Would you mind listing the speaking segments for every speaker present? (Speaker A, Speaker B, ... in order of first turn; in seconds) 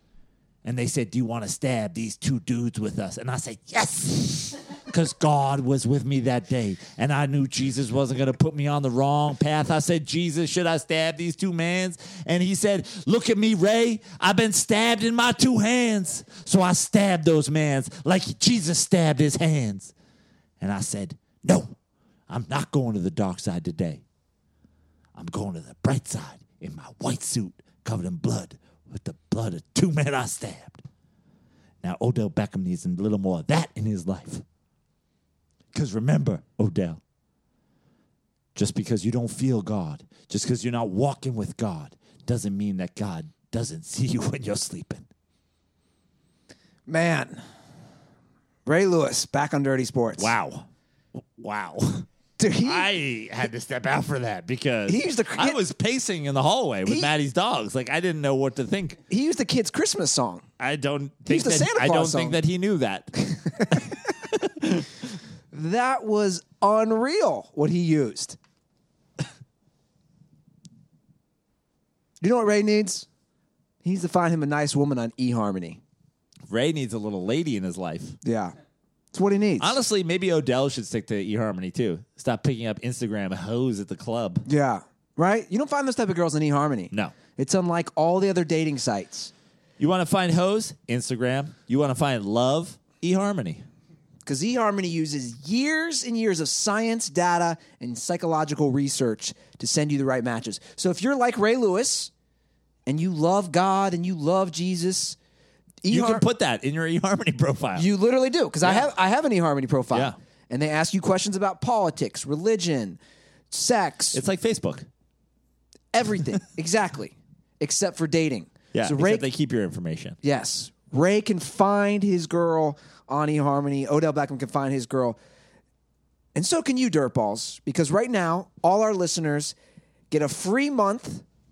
Speaker A: 0.7-19.9, 20.6-21.8, 22.3-24.0, 25.1-30.8, 31.8-34.4, 35.7-37.0, 38.5-45.0, 50.2-52.1, 52.6-59.0, 60.6-64.9, 76.5-78.2, 79.6-84.5, 89.8-93.6, 105.9-107.9, 108.6-108.9, 114.1-114.9, 118.7-120.2
Speaker B: 46.9-47.4, 48.6-50.3, 52.4-52.9, 54.9-55.6, 56.9-57.1, 59.1-60.5, 61.3-62.4, 63.6-63.9, 65.5-68.4, 72.2-73.1, 73.8-75.8, 78.2-78.5, 79.1-79.8, 84.5-89.3, 94.2-102.1, 102.9-105.2, 105.8-106.2, 107.8-113.0, 113.5-114.2, 115.9-119.3, 120.2-125.2, 126.3-129.6, 130.1-131.2